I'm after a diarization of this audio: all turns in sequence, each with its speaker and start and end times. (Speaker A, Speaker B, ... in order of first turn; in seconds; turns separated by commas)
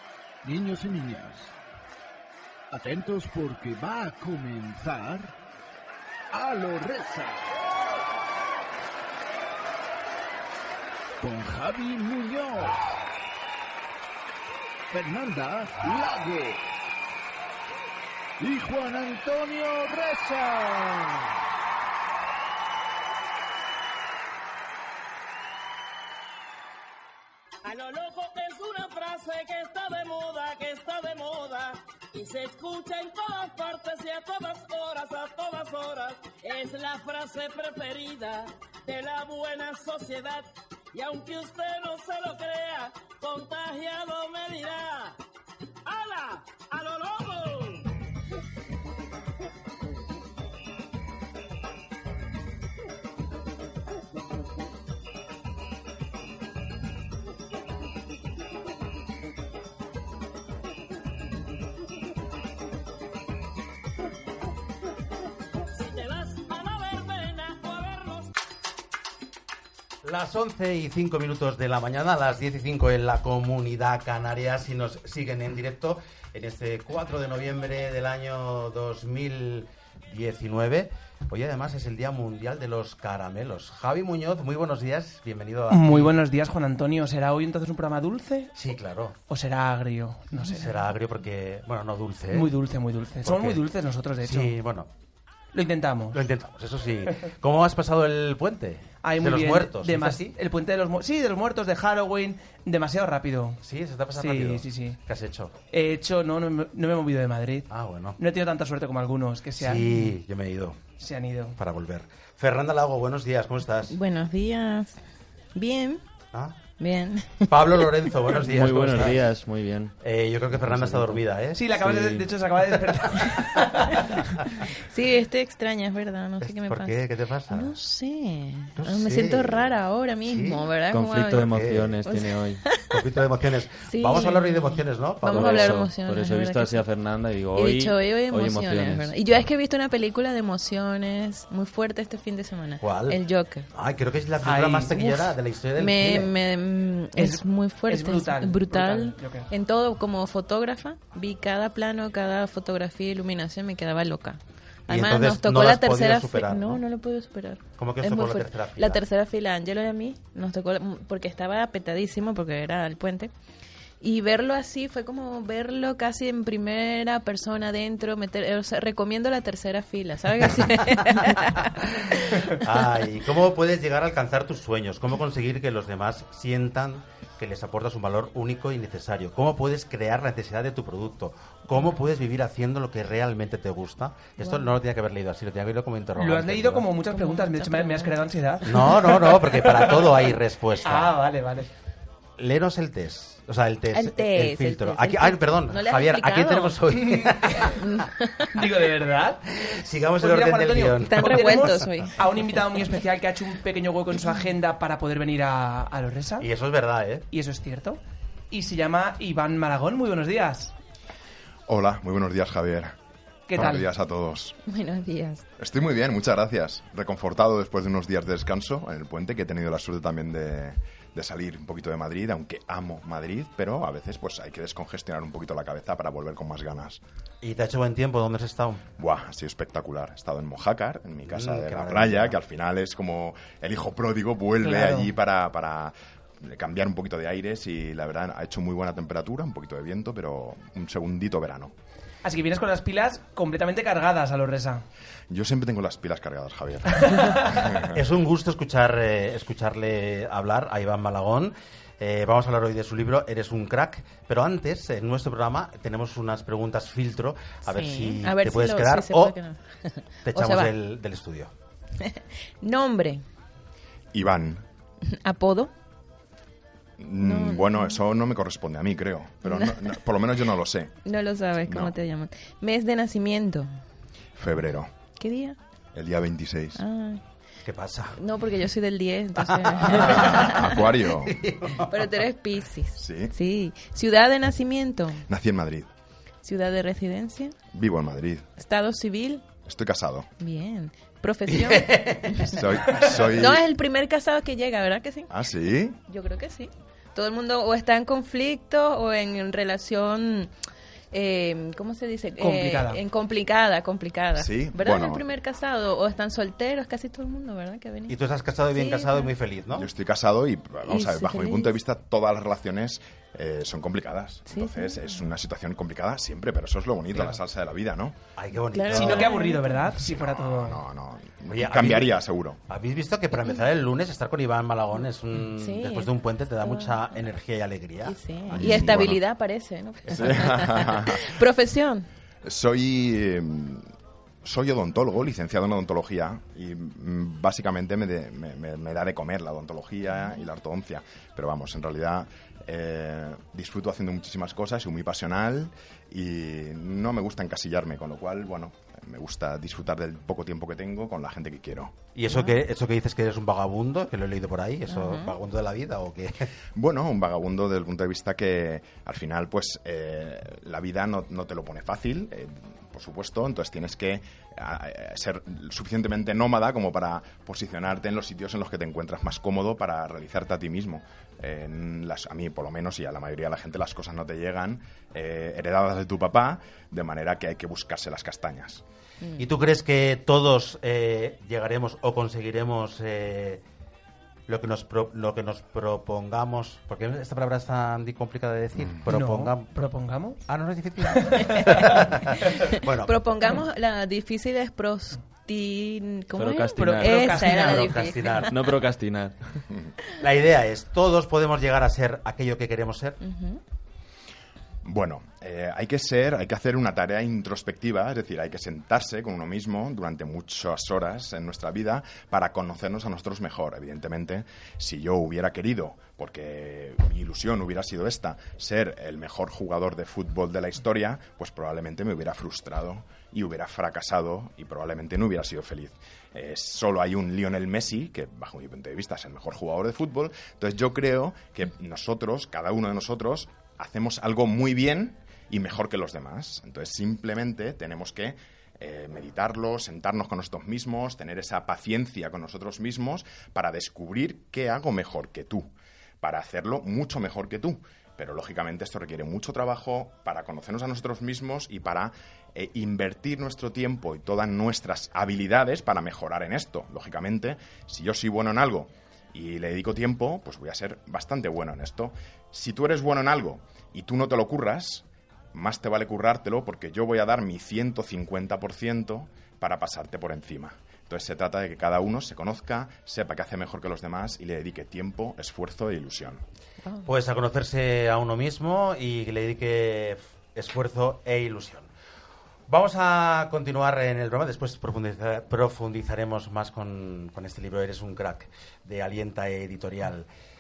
Speaker A: 0.4-1.5, Speaker A: 2.7-5.3, Speaker A: 6.3-7.5, Speaker A: 11.2-13.0, Speaker A: 14.9-16.7, Speaker A: 18.4-21.3, Speaker B: 27.6-45.2, Speaker B: 45.8-47.9, Speaker B: 65.7-68.3, Speaker C: 70.0-86.1, Speaker D: 85.7-88.5, Speaker C: 88.5-89.2, Speaker D: 89.3-90.7, Speaker C: 90.4-92.5, Speaker D: 92.3-94.5, Speaker C: 93.2-93.6, Speaker C: 94.2-94.9, Speaker D: 95.5-96.2, Speaker C: 96.1-100.3, Speaker D: 99.0-103.6, Speaker C: 103.6-105.5, Speaker D: 104.1-105.0, Speaker D: 105.7-110.0, Speaker C: 107.7-108.2, Speaker C: 109.6-110.8, Speaker D: 111.0-111.6, Speaker C: 111.5-114.0, Speaker E: 113.9-115.0, Speaker E: 115.5-116.0, Speaker E: 116.8-117.4, Speaker C: 117.5-119.2, Speaker F: 118.4-119.9, Speaker C: 120.0-122.2, Speaker F: 120.6-121.2, Speaker D: 121.5-124.2, Speaker F: 121.8-122.2, Speaker C: 122.8-124.6, Speaker E: 124.8-126.9, Speaker C: 126.4-127.7, Speaker E: 127.5-131.5, Speaker C: 128.8-130.7, Speaker F: 130.9-132.6, Speaker C: 131.4-132.0, Speaker E: 132.1-133.0, Speaker C: 132.9-135.8, Speaker E: 133.9-136.8, Speaker F: 135.3-139.1, Speaker E: 137.6-143.7, Speaker C: 142.8-146.3, Speaker D: 144.4-145.3, Speaker E: 145.8-163.3, Speaker D: 147.2-149.5, Speaker C: 154.9-156.8, Speaker C: 157.8-159.0, Speaker E: 164.0-172.5, Speaker C: 170.8-186.9, Speaker E: 184.4-184.7, Speaker D: 186.2-191.7, Speaker E: 187.1-188.1, Speaker C: 188.6-191.2, Speaker C: 192.4-198.0, Speaker E: 193.9-196.8, Speaker D: 196.9-197.7, Speaker E: 197.7-198.5, Speaker D: 198.5-199.4, Speaker C: 199.5-201.8, Speaker D: 200.2-206.5, Speaker E: 201.0-202.2, Speaker C: 206.4-207.3, Speaker D: 207.3-208.0, Speaker D: 208.5-210.8, Speaker G: 211.7-212.9, Speaker D: 213.5-213.9, Speaker G: 213.5-214.6, Speaker E: 214.7-215.4, Speaker G: 215.6-227.0, Speaker C: 227.4-228.8, Speaker G: 229.0-241.7, Speaker C: 231.3-232.4, Speaker D: 234.6-235.1, Speaker D: 242.2-244.8, Speaker G: 245.3-248.0, Speaker D: 247.0-247.6, Speaker C: 247.9-259.4, Speaker E: 257.7-260.7, Speaker C: 260.2-261.5, Speaker E: 262.0-263.2, Speaker G: 264.1-264.6, Speaker E: 265.1-265.7, Speaker G: 267.0-270.9, Speaker E: 267.2-268.0, Speaker E: 269.4-269.9, Speaker E: 271.1-273.7, Speaker G: 271.6-271.9, Speaker G: 274.4-274.9, Speaker E: 275.2-275.6, Speaker G: 275.9-276.8, Speaker E: 276.8-277.2, Speaker C: 277.6-278.2, Speaker E: 278.2-280.8, Speaker C: 279.4-282.1, Speaker G: 279.9-281.4, Speaker E: 281.8-285.2, Speaker G: 282.9-283.3, Speaker G: 285.3-285.9, Speaker E: 286.4-287.6, Speaker G: 287.7-288.5, Speaker E: 288.6-289.4, Speaker G: 289.6-290.3, Speaker E: 290.4-295.3, Speaker C: 291.4-293.2, Speaker G: 292.4-293.7, Speaker G: 295.3-296.0, Speaker E: 296.1-300.5, Speaker E: 301.1-308.2, Speaker D: 302.4-303.0, Speaker G: 304.4-305.3, Speaker C: 308.1-309.9, Speaker E: 308.7-309.3, Speaker G: 309.7-318.2, Speaker E: 310.9-311.7, Speaker E: 314.5-315.2, Speaker C: 318.4-319.4, Speaker E: 318.7-319.9, Speaker D: 318.9-320.8, Speaker G: 320.0-322.6, Speaker C: 321.5-329.1, Speaker E: 325.5-326.1, Speaker E: 326.6-327.0, Speaker E: 328.1-332.1, Speaker G: 328.5-329.2, Speaker G: 330.1-331.4, Speaker G: 332.4-333.9, Speaker G: 334.4-352.0, Speaker C: 352.1-356.5, Speaker E: 354.9-355.3, Speaker G: 356.8-378.8, Speaker C: 379.4-383.6, Speaker C: 384.5-389.7, Speaker D: 389.1-390.4, Speaker C: 390.4-393.5, Speaker D: 391.1-391.8, Speaker E: 391.6-398.5, Speaker F: 396.4-397.6, Speaker D: 396.8-398.1, Speaker C: 397.6-398.5, Speaker F: 398.5-399.4, Speaker C: 400.2-403.2, Speaker E: 403.2-403.6, Speaker G: 404.8-445.7, Speaker G: 446.2-476.4, Speaker C: 477.1-481.9, Speaker C: 482.7-490.3